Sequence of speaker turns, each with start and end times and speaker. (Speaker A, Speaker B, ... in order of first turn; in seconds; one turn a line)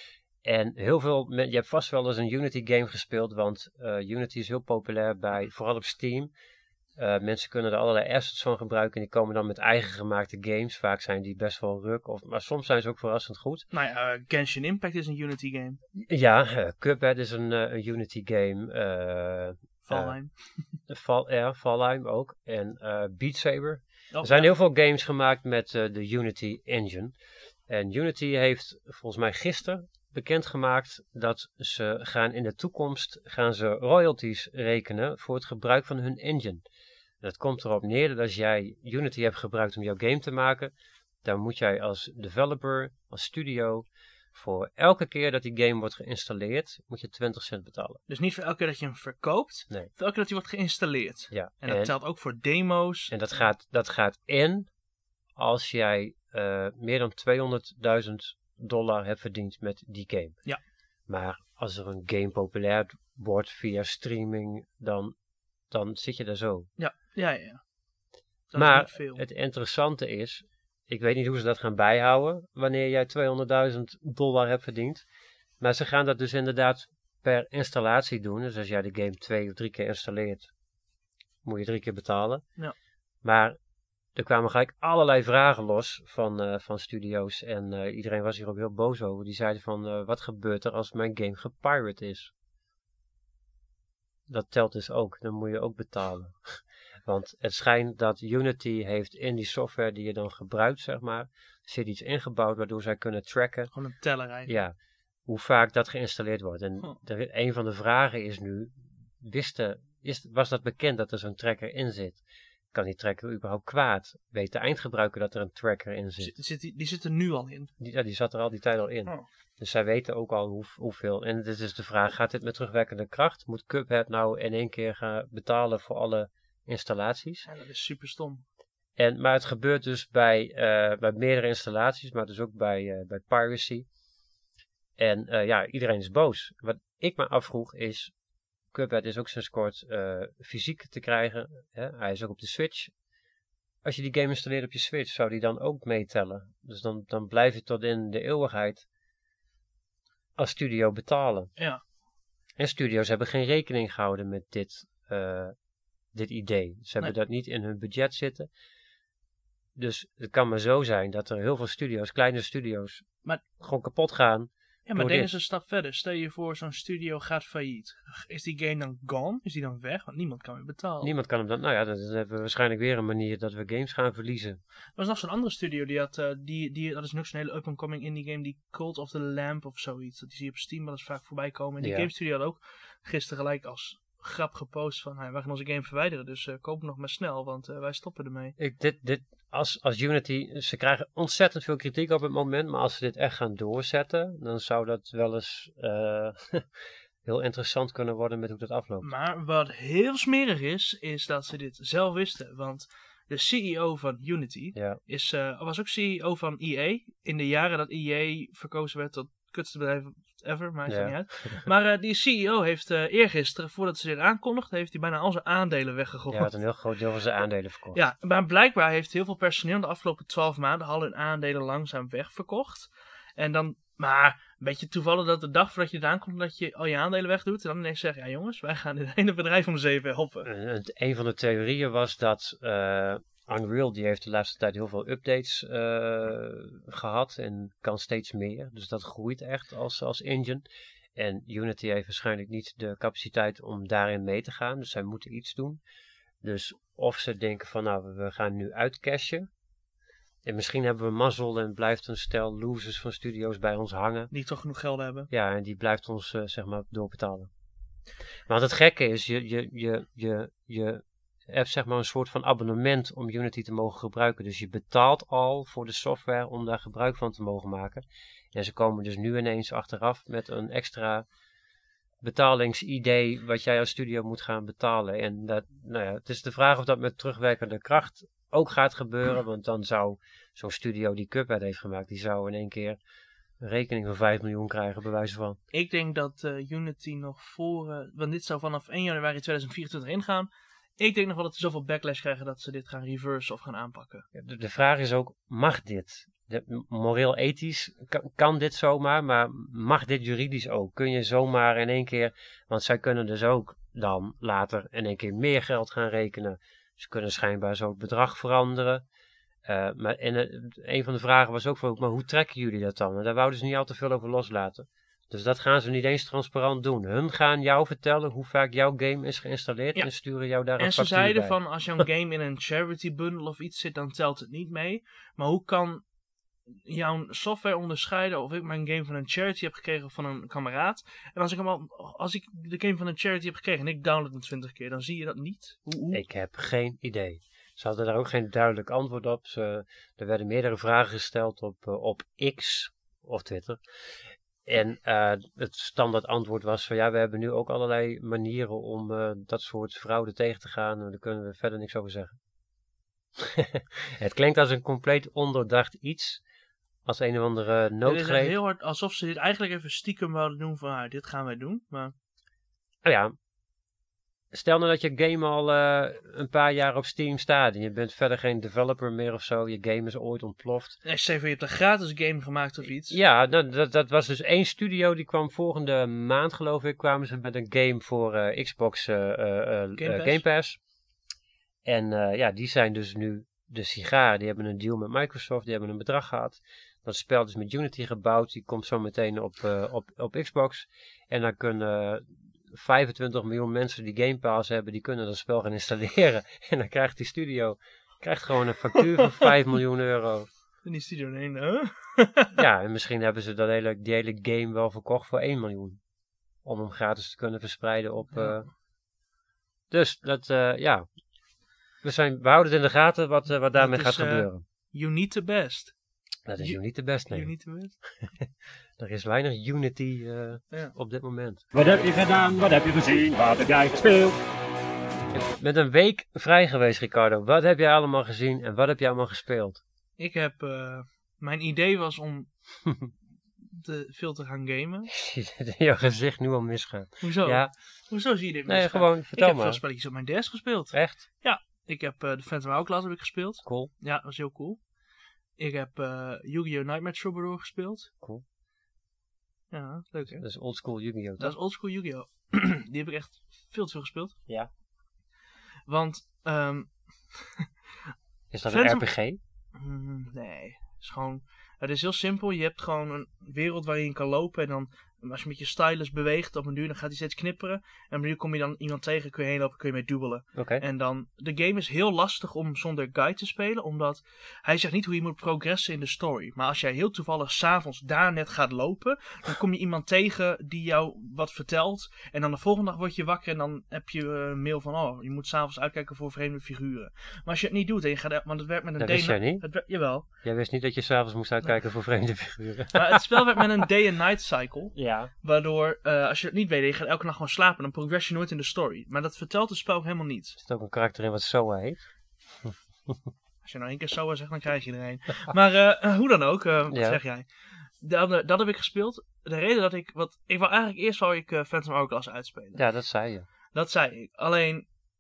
Speaker A: 0.4-6.3
Speaker A: 7.0-13.7
Speaker B: 13.7-15.8
Speaker A: 16.0-20.2
Speaker B: 19.8-20.6
Speaker A: 20.9-27.1
Speaker B: 24.1-24.5
Speaker A: 27.7-36.6
Speaker A: 37.2-40.7
Speaker A: 41.2-48.0
Speaker B: 48.1-53.2
Speaker A: 51.3-51.9
Speaker A: 53.1-54.7
Speaker A: 55.4-60.4
Speaker A: 61.1-65.2
Speaker A: 65.7-66.7
Speaker B: 66.8-67.6
Speaker B: 68.5-69.2
Speaker A: 68.5-75.0
Speaker A: 75.6-80.5
Speaker A: 81.4-82.5
Speaker A: 83.2-83.6
Speaker A: 84.2-92.3
Speaker A: 94.3-103.7
Speaker B: 103.7-104.5
Speaker A: 104.5-104.8
Speaker A: 105.3-112.2
Speaker A: 112.7-116.3
Speaker B: 116.2-117.7
Speaker A: 117.8-127.5
Speaker B: 127.5-128.4
Speaker A: 129.0-133.9
Speaker A: 135.0-138.1
Speaker A: 138.7-142.9
Speaker A: 143.8-148.9
Speaker A: 150.4-151.5
Speaker A: 152.6-155.6
Speaker A: 156.1-158.5
Speaker A: 159.8-163.1
Speaker A: 163.6-165.3
Speaker B: 164.9-171.1
Speaker A: 171.0-174.6
Speaker B: 175.0-188.6
Speaker A: 181.8-182.1
Speaker A: 188.6-196.7
Speaker A: 197.2-199.1
Speaker B: 199.0-216.5
Speaker A: 204.8-205.0
Speaker A: 210.9-211.7
Speaker A: 216.3-218.0
Speaker B: 217.9-230.5
Speaker A: 230.4-245.8
Speaker A: 246.4-249.5
Speaker A: 250.4-254.3
Speaker B: 254.3-255.3
Speaker A: 255.3-257.5
Speaker A: 258.5-271.3
Speaker A: 272.2-283.0
Speaker A: 283.6-285.6
Speaker B: 285.7-294.3
Speaker A: 294.3-309.1
Speaker A: 309.7-321.6
Speaker B: 320.8-326.0
Speaker B: 326.9-336.2
Speaker A: 336.1-343.8
Speaker A: 344.6-352.4
Speaker A: 353.4-356.4
Speaker A: 357.1-358.6
Speaker B: 358.1-362.1
Speaker A: 363.0-363.3
Speaker A: 364.5-371.0
Speaker B: 371.1-373.2
Speaker A: 373.1-380.8
Speaker B: 380.0-380.4
Speaker A: 381.9-400.5
Speaker B: 398.9-399.5
Speaker B: 400.9-402.6
Speaker A: 402.6-406.0
Speaker A: 406.6-408.7
Speaker B: 408.3-408.6
Speaker A: 409.9-411.1
Speaker A: 412.0-414.6
Speaker B: 413.8-415.9
Speaker A: 416.5-417.5
Speaker B: 416.6-418.0
Speaker A: 418.4-421.6
Speaker C: 421.7-424.4
Speaker A: 425.3-429.8
Speaker B: 430.2-432.5
Speaker B: 433.7-435.1
Speaker A: 435.1-437.7
Speaker B: 437.2-444.8
Speaker A: 438.7-439.8
Speaker A: 440.9-441.2
Speaker A: 443.6-443.9
Speaker B: 445.6-448.1
Speaker B: 449.7-450.4
Speaker A: 450.4-451.6
Speaker B: 451.4-454.4
Speaker B: 455.9-457.6
Speaker A: 458.5-459.4
Speaker B: 458.7-459.1
Speaker B: 459.8-490.3
Speaker A: 470.6-470.8
Speaker A: 489.0-489.7
Speaker A: 490.4-493.6
Speaker B: 492.9-500.6
Speaker A: 494.9-495.3
Speaker A: 500.6-502.0
Speaker A: 502.6-503.2
Speaker B: 503.6-507.5
Speaker A: 506.9-507.2
Speaker B: 508.0-512.8
Speaker A: 512.8-513.5
Speaker B: 513.7-514.9